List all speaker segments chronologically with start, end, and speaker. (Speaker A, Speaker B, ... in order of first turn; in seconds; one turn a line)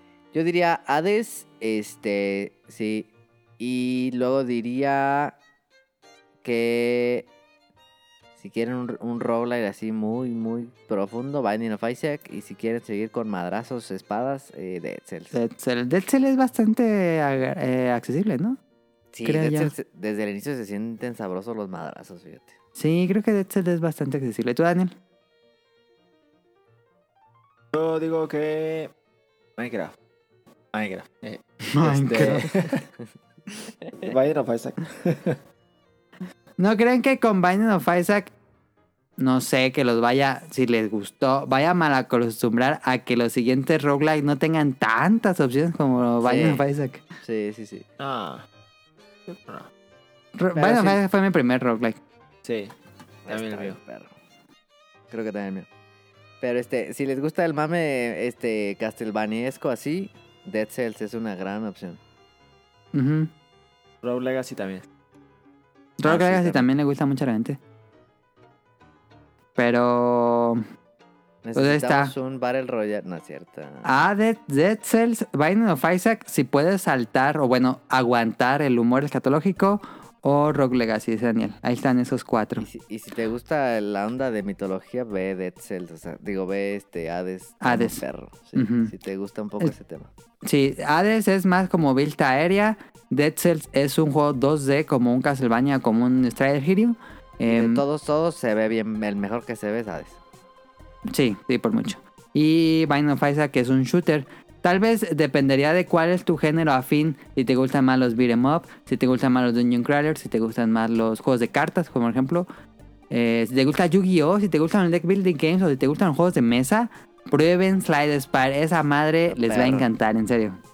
Speaker A: 0.3-3.1
Speaker A: 3.6-5.3
Speaker A: 6.4-7.3
Speaker A: 8.4-15.4
Speaker B: 15.3-18.6
Speaker A: 19.1-22.5
Speaker B: 19.2-19.7
Speaker B: 22.8-24.9
Speaker C: 27.7-28.9
Speaker C: 29.6-29.9
Speaker C: 30.7-32.8
Speaker B: 31.7-32.5
Speaker C: 34.0-35.4
Speaker B: 36.6-38.3
Speaker B: 39.2-47.0
Speaker A: 46.2-46.6
Speaker A: 47.2-47.9
Speaker C: 48.0-48.5
Speaker C: 49.3-49.7
Speaker B: 50.4-52.0
Speaker A: 50.5-51.0
Speaker C: 52.4-52.7
Speaker A: 53.2-54.1
Speaker C: 53.3-53.8
Speaker A: 55.1-55.7
Speaker A: 56.4-62.0
Speaker B: 62.9-63.3
Speaker C: 64.0-64.8
Speaker B: 66.0-67.6
Speaker A: 66.0-66.7
Speaker B: 69.6-70.6
Speaker A: 71.5-73.9
Speaker B: 71.5-72.1
Speaker B: 73.8-82.7
Speaker A: 82.6-90.1
Speaker B: 87.6-88.0
Speaker B: 88.6-88.9
Speaker B: 90.4-97.8
Speaker A: 97.5-100.2
Speaker B: 101.0-112.5
Speaker B: 113.1-120.6
Speaker A: 119.3-119.9